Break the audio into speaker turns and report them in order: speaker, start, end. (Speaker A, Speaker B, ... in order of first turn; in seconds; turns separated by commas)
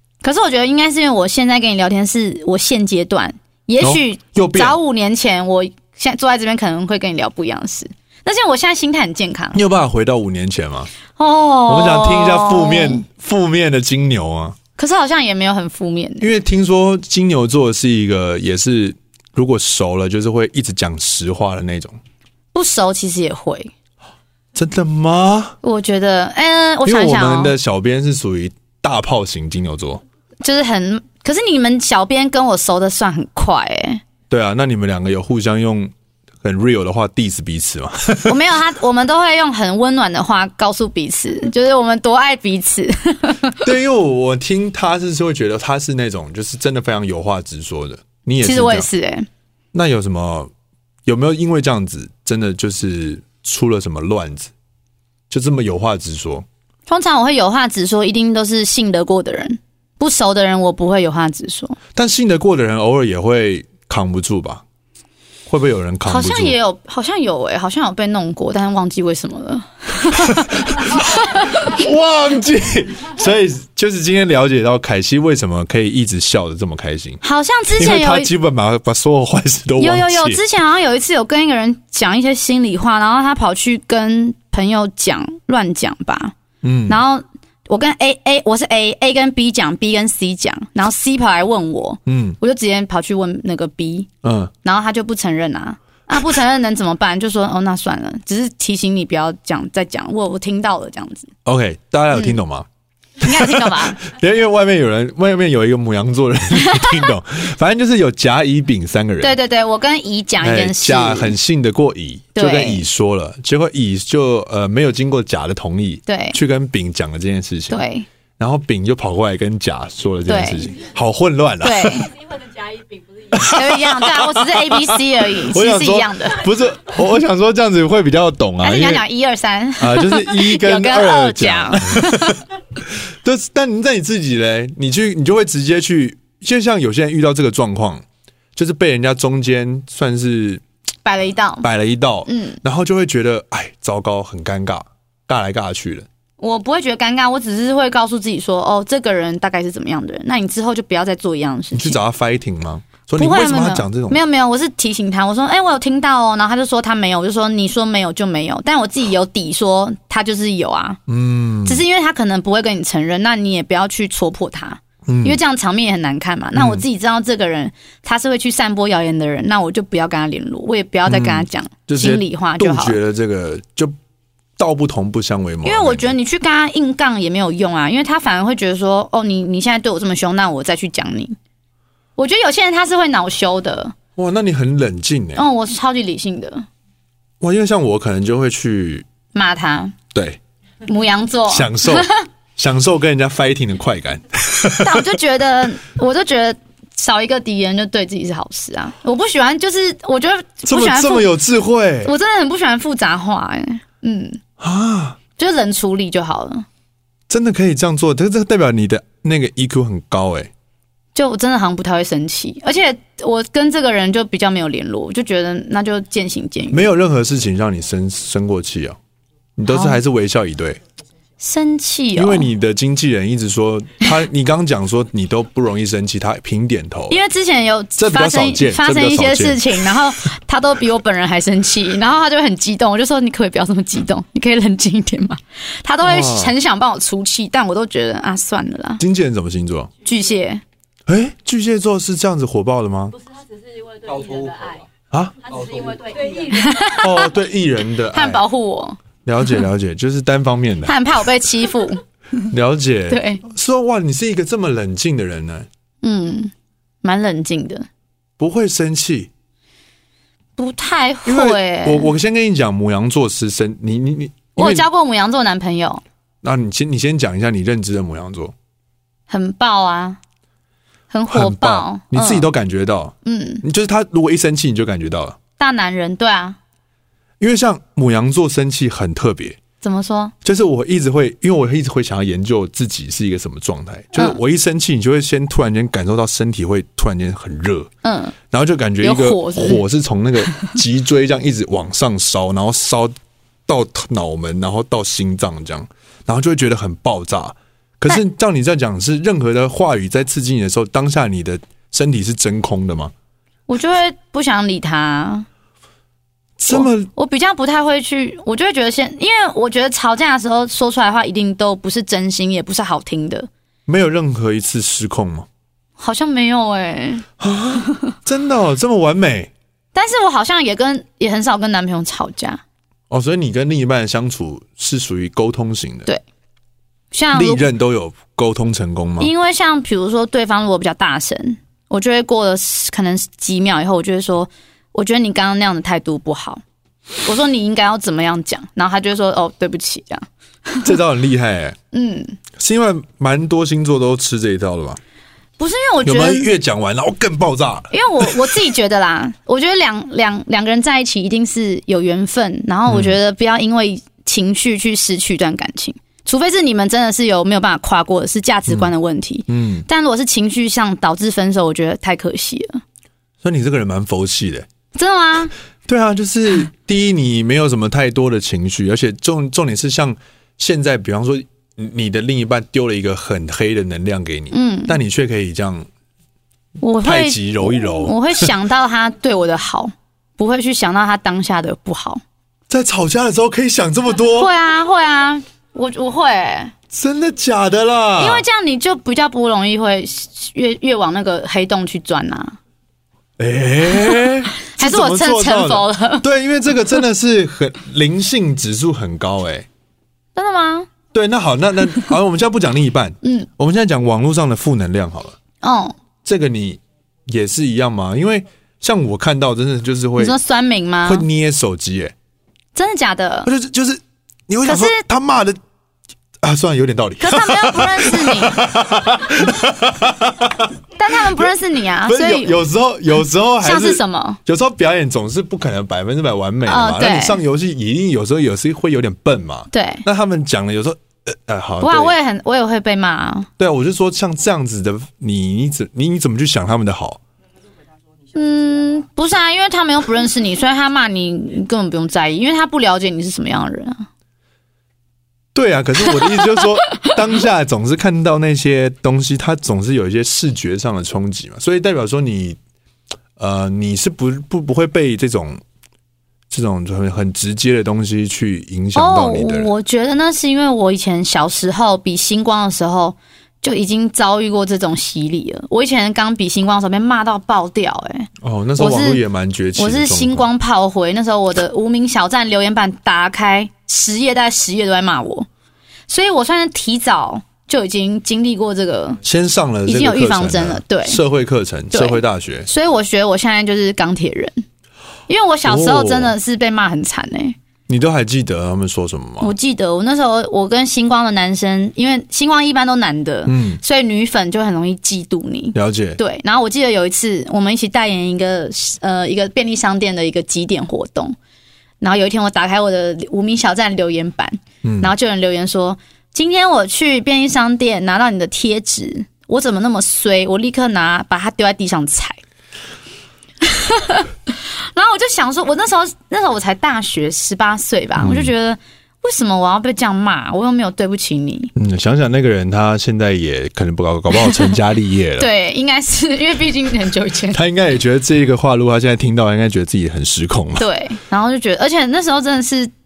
Speaker A: 0.2-9.6, Speaker B: 3.8-4.8, Speaker B: 9.5-10.9, Speaker A: 11.2-13.0, Speaker B: 11.7-14.6, Speaker A: 14.8-16.3, Speaker B: 16.2-22.0, Speaker A: 22.5-23.7, Speaker B: 24.5-25.6, Speaker A: 25.6-27.5, Speaker B: 26.8-30.0, Speaker A: 30.4-34.0, Speaker B: 34.3-38.3, Speaker A: 38.2-43.6, Speaker B: 43.6-48.9, Speaker A: 48.4-49.3, Speaker B: 49.7-50.5, Speaker B: 51.0-54.5, Speaker B: 55.3-56.5, Speaker A: 56.9-61.8, Speaker B: 61.9-64.6, Speaker B: 65.5-66.5, Speaker A: 66.0-71.7, Speaker B: 70.1-80.4, Speaker A: 77.2-78.3, Speaker A: 79.8-86.3, Speaker B: 86.6-87.0, Speaker A: 86.9-94.1, Speaker B: 92.0-92.4, Speaker B: 94.2-94.5, Speaker A: 94.6-101.3, Speaker B: 101.4-102.7, Speaker A: 102.1-102.4, Speaker A: 103.2-104.0, Speaker B: 103.2-109.4, Speaker A: 106.7-107.1, Speaker A: 109.2-111.4, Speaker B: 110.4-117.8, Speaker A: 112.3-112.9, Speaker A: 116.1-116.4, Speaker A: 117.7-118.1, Speaker B: 118.4-122.1, Speaker A: 120.3-120.7, Speaker A: 121.6-122.1, Speaker B: 123.3-129.0, Speaker A: 123.3-126.4, Speaker A: 128.6-132.4, Speaker B: 129.8-138.0, Speaker B: 138.6-140.6, Speaker A: 141.0-141.7, Speaker B: 141.6-146.1, Speaker A: 142.3-142.6, Speaker A: 146.4-152.0, Speaker B: 151.7-154.2, Speaker A: 153.2-161.0, Speaker B: 161.1-161.8, Speaker A: 161.6-173.0, Speaker B: 165.1-165.4, Speaker B: 166.5-166.8, Speaker B: 171.1-173.9, Speaker B: 174.6-176.1, Speaker A: 175.6-181.4, Speaker A: 182.2-183.9, Speaker B: 184.2-185.4, Speaker A: 185.3-186.7, Speaker B: 187.4-189.1, Speaker A: 189.3-189.9, Speaker B: 190.1-190.4, Speaker A: 190.8-192.2, Speaker B: 191.5-195.0, Speaker A: 194.8-201.3, Speaker B: 200.7-202.1, Speaker A: 202.0-204.4, Speaker B: 204.6-205.2, Speaker A: 205.4-206.7, Speaker B: 207.3-210.5, Speaker A: 211.1-216.9, Speaker B: 216.7-219.0, Speaker B: 219.6-220.8, Speaker A: 219.7-220.0, Speaker A: 221.4-222.5, Speaker B: 222.2-227.2, Speaker A: 227.1-239.0, Speaker B: 228.0-229.9, Speaker B: 236.0-236.5, Speaker B: 239.0-239.9, Speaker A: 240.0-240.6, Speaker B: 241.1-243.2, Speaker C: 243.3-244.8, Speaker B: 245.1-245.7, Speaker C: 245.5-246.7, Speaker A: 246.2-247.3, Speaker B: 247.0-248.4, Speaker A: 248.1-249.0, Speaker B: 249.2-251.0, Speaker A: 250.8-252.0, Speaker B: 252.5-255.7, Speaker A: 253.1-253.4, Speaker A: 256.0-257.9, Speaker B: 258.4-259.3, Speaker A: 260.6-262.1, Speaker B: 261.2-264.9, Speaker A: 264.6-266.0, Speaker B: 266.4-268.5, Speaker A: 269.3-270.2, Speaker A: 271.1-272.5, Speaker B: 271.3-275.4, Speaker A: 273.2-273.6, Speaker A: 275.6-276.6, Speaker B: 277.4-279.6, Speaker A: 279.8-280.3, Speaker B: 280.4-287.9, Speaker A: 284.1-284.4, Speaker A: 288.0-288.3, Speaker B: 288.5-293.1, Speaker A: 289.0-289.8, Speaker B: 293.7-303.1, Speaker A: 303.7-305.5, Speaker B: 306.6-307.1, Speaker A: 306.7-313.5, Speaker B: 313.9-315.5, Speaker A: 316.0-318.1, Speaker B: 317.4-319.5, Speaker A: 319.9-322.6, Speaker B: 323.1-326.1, Speaker A: 327.1-327.7, Speaker B: 327.3-329.3, Speaker A: 329.2-336.6, Speaker A: 337.2-340.9, Speaker B: 340.8-341.8, Speaker A: 341.9-342.4, Speaker B: 342.6-345.0, Speaker A: 345.6-346.5, Speaker B: 346.0-348.6, Speaker A: 347.9-362.8, Speaker B: 352.9-353.1, Speaker B: 359.5-359.9, Speaker B: 363.4-364.7, Speaker A: 364.9-365.5, Speaker B: 365.9-375.9, Speaker A: 374.5-374.9, Speaker A: 376.8-382.2, Speaker B: 377.0-378.5, Speaker B: 382.7-384.5, Speaker A: 384.3-386.7, Speaker B: 386.9-388.4, Speaker A: 388.2-392.6, Speaker B: 393.4-399.7, Speaker A: 393.9-396.2, Speaker A: 400.3-400.9, Speaker B: 401.1-405.4, Speaker A: 403.2-403.5, Speaker A: 405.6-406.0, Speaker B: 406.2-410.3, Speaker A: 410.2-411.2, Speaker B: 411.0-412.1, Speaker A: 412.7-413.5, Speaker B: 413.4-415.6, Speaker A: 414.6-415.0, Speaker B: 416.4-420.7, Speaker A: 417.2-418.6, Speaker A: 421.0-422.6, Speaker B: 422.0-432.1, Speaker A: 423.6-424.4, Speaker A: 426.6-427.4, Speaker A: 429.7-430.0, Speaker A: 431.8-433.5, Speaker B: 433.6-437.2, Speaker A: 438.3-444.0, Speaker B: 445.5-452.6, Speaker B: 453.4-455.6, Speaker B: 456.5-459.7, Speaker A: 458.9-469.2, Speaker B: 468.4-470.5, Speaker A: 469.8-475.5, Speaker A: 476.1-479.2, Speaker B: 479.2-482.7, Speaker A: 479.9-481.2, Speaker A: 481.9-484.6, Speaker A: 485.3-487.6, Speaker B: 485.6-486.3, Speaker B: 487.9-489.5, Speaker A: 489.4-501.4, Speaker B: 493.4-493.8, Speaker B: 495.7-496.2, Speaker A: 502.0-512.4, Speaker B: 504.8-505.1, Speaker A: 513.6-521.7, Speaker B: 518.2-518.5, Speaker B: 521.7-525.5, Speaker A: 524.4-524.7, Speaker A: 525.4-527.6, Speaker B: 527.5-530.9, Speaker A: 530.8-532.9